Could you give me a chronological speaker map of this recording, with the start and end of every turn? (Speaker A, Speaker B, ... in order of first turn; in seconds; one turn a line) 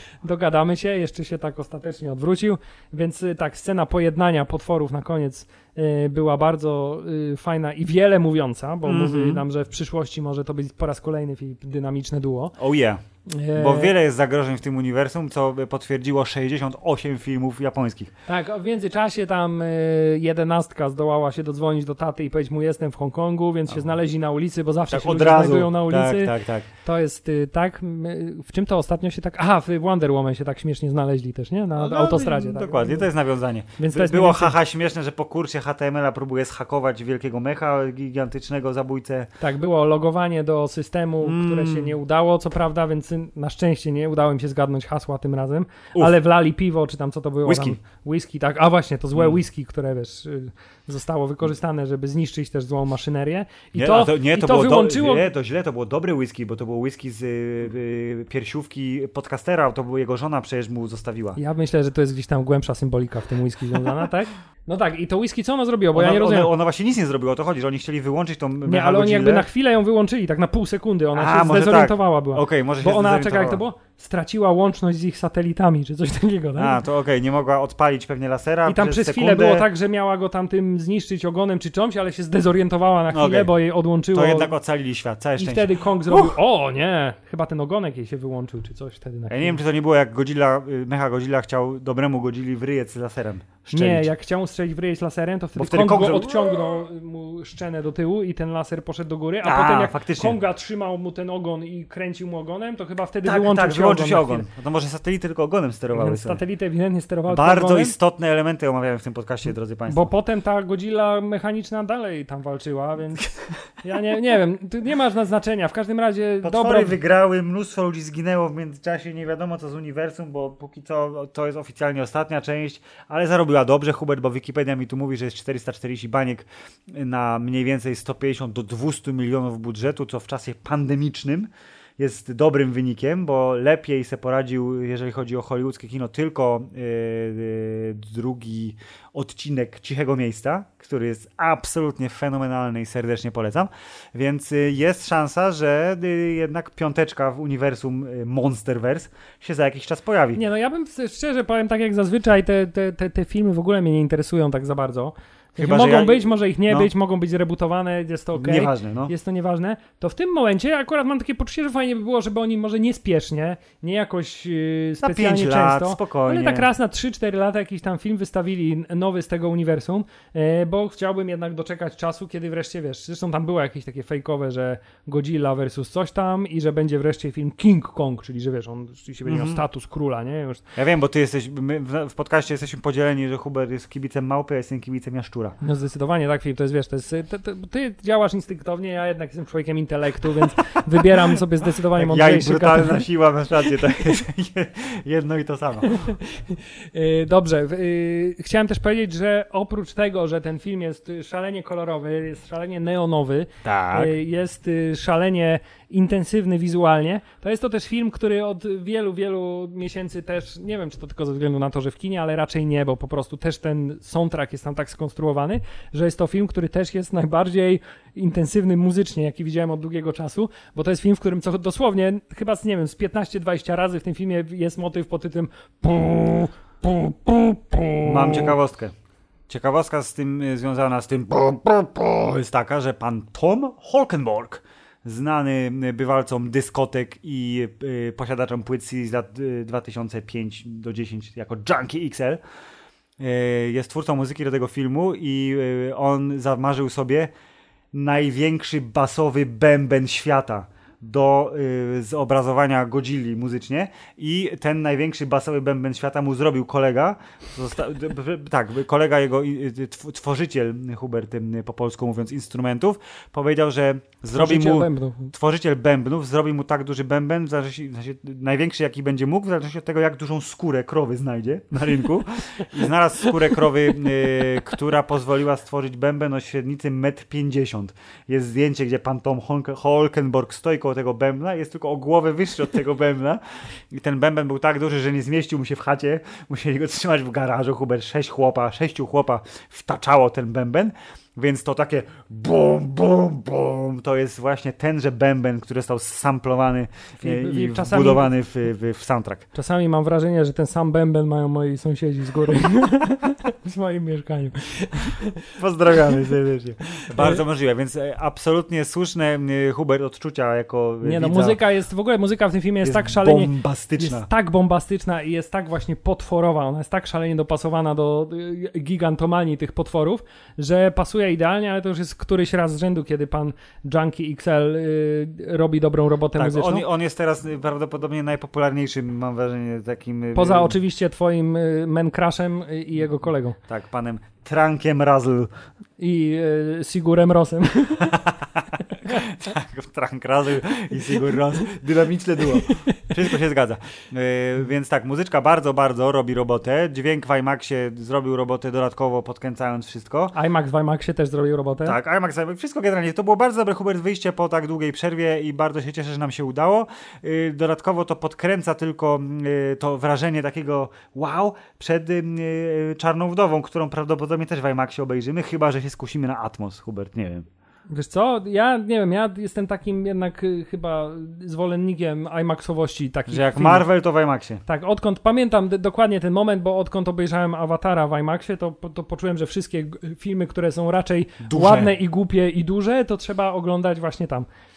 Speaker A: 0.2-12.6
Speaker B: 8.8-9.4
Speaker B: 12.6-13.0
Speaker A: 13.3-13.9
Speaker B: 13.5-18.1
Speaker A: 18.3-33.0
Speaker B: 24.9-26.7
Speaker B: 31.8-39.3
Speaker A: 33.8-34.5
Speaker A: 39.4-55.3
Speaker B: 41.2-41.9
Speaker B: 47.4-47.8
Speaker B: 53.8-61.4
Speaker A: 61.4-66.5
Speaker B: 65.9-69.4
Speaker A: 68.6-76.8
Speaker B: 71.1-73.6
Speaker B: 76.6-79.7
Speaker A: 78.7-84.5
Speaker B: 83.1-83.5
Speaker B: 84.1-86.3
Speaker A: 85.4-89.6
Speaker B: 89.3-94.1
Speaker A: 93.7-104.4
Speaker B: 95.6-96.3
Speaker B: 99.4-100.4
Speaker B: 103.2-106.4
Speaker A: 105.9-107.9
Speaker B: 107.3-110.1
Speaker A: 109.9-117.0
Speaker B: 116.4-150.4
Speaker A: 150.3-180.7
Speaker B: 155.6-156.9
Speaker B: 158.3-159.1
Speaker B: 165.0-166.7
Speaker B: 179.2-179.6
Speaker B: 180.8-185.6
Speaker A: 185.6-193.0
Speaker B: 191.9-196.1
Speaker A: 195.9-228.5
Speaker B: 203.6-204.1
Speaker B: 228.0-228.9
Speaker B: 229.5-242.4
Speaker B: 243.2-247.3
Speaker B: 247.9-299.4
Speaker A: 264.3-265.3
Speaker A: 297.2-298.3
Speaker A: 299.5-305.4
Speaker B: 305.6-311.6
Speaker A: 306.9-307.4
Speaker A: 311.0-326.8
Speaker B: 312.8-314.3
Speaker B: 326.4-330.7
Speaker A: 330.3-333.6
Speaker B: 333.7-335.5
Speaker A: 336.0-338.1
Speaker B: 338.0-350.3
Speaker A: 342.7-342.9
Speaker A: 350.3-352.0
Speaker B: 351.8-367.5
Speaker A: 367.9-373.9
Speaker B: 373.3-374.6
Speaker A: 374.6-384.5
Speaker B: 381.4-381.9